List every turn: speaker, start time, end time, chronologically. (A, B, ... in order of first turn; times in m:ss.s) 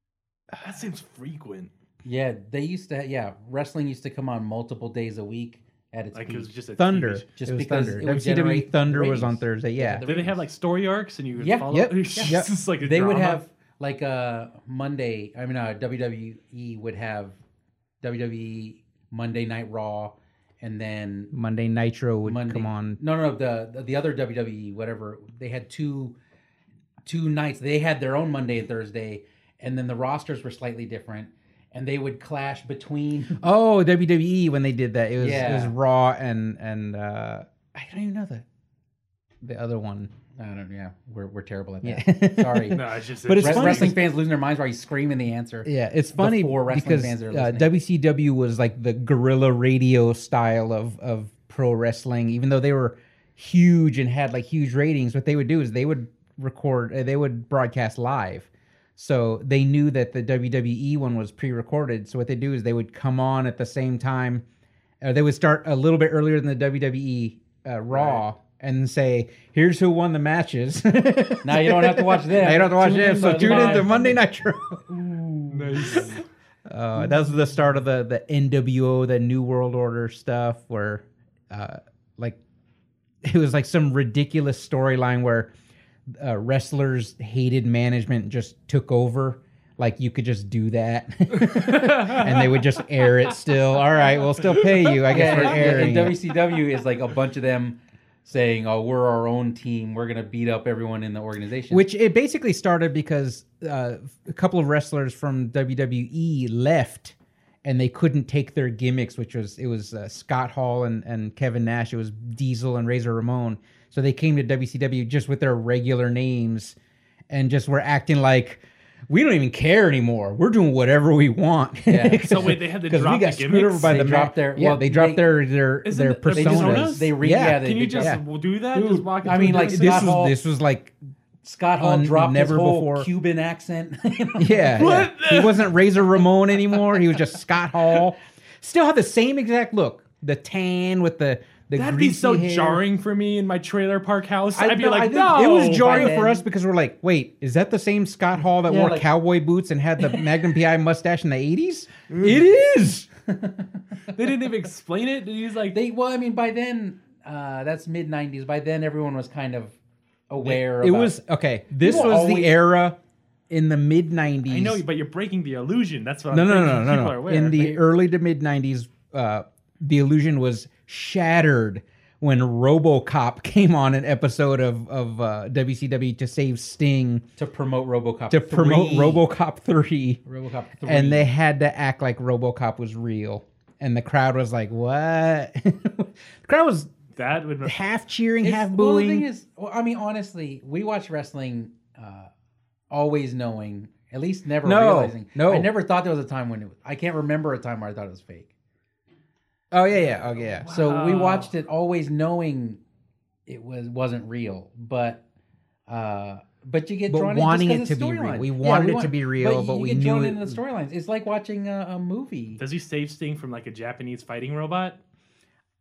0:00.6-0:01.7 A
0:02.0-0:06.5 B
0:06.1-0:07.3 A
0:06.8-0:10.0 C
0:07.4-0:10.4 B
0:10.0-0:13.4 A
0:11.4-0:17.4 B
0:11.7-0:12.5 C
0:18.0-0:21.3 B
0:21.3-0:23.0 C
0:22.2-0:26.2 B
0:27.1-0:33.4 B
0:33.4-0:38.4 C
0:35.2-0:35.7 B
0:39.4-0:40.1 C
0:40.4-0:42.8 B
0:41.8-0:44.0 C
0:42.7-0:44.0 A
0:43.4-0:47.7 B
0:45.6-1:04.4 C
1:05.0-1:14.8 C
1:07.9-1:08.2 B
1:11.4-1:14.2 B
1:13.3-1:13.9 A
1:14.9-1:16.2 B
1:15.5-1:16.2 A
1:15.8-1:16.2 C
1:16.7-1:22.4 C
1:17.0-1:17.4 B
1:23.2-1:25.5 C
1:26.1-1:36.2 C
1:31.4-1:32.8 A
1:34.2-1:35.6 A
1:35.1-1:41.8 B
1:41.7-1:56.8 C
1:57.3-2:08.2 C
2:01.9-2:02.6 B
2:02.2-2:04.0 A
2:03.9-2:05.3 B
2:05.8-2:10.2 A
2:06.3-2:08.2 B
2:08.7-2:10.4 B
2:09.4-2:11.0 C
2:11.4-2:15.0 B
2:11.8-2:13.1 C
2:14.4-2:22.8 C
2:14.8-2:17.2 A
2:21.8-2:26.2 A
2:24.6-2:26.4 B
2:24.7-2:33.1 C
2:28.6-2:29.1 B
2:32.1-2:32.4 A
2:33.3-2:34.0 B
2:34.1-2:35.8 A
2:35.7-2:39.8 B
2:40.3-2:41.2 B
2:40.4-2:43.0 C
2:41.8-2:42.6 B
2:43.5-2:44.8 C
2:44.5-2:47.8 A
2:46.3-2:57.2 C
2:57.4-2:59.2 B
2:58.3-3:00.2 C
3:00.3-3:01.3 B
3:00.9-3:06.9 C
3:07.2-3:07.8 A
3:07.6-3:09.3 C
3:08.4-3:12.3 B
3:12.9-3:18.5 B
3:14.6-3:15.7 C
3:19.7-3:20.7 C
3:20.5-3:21.5 A
3:20.7-3:22.8 B
3:23.5-3:25.2 B
3:25.9-3:32.6 B
3:27.1-3:30.6 C
3:32.6-3:35.0 A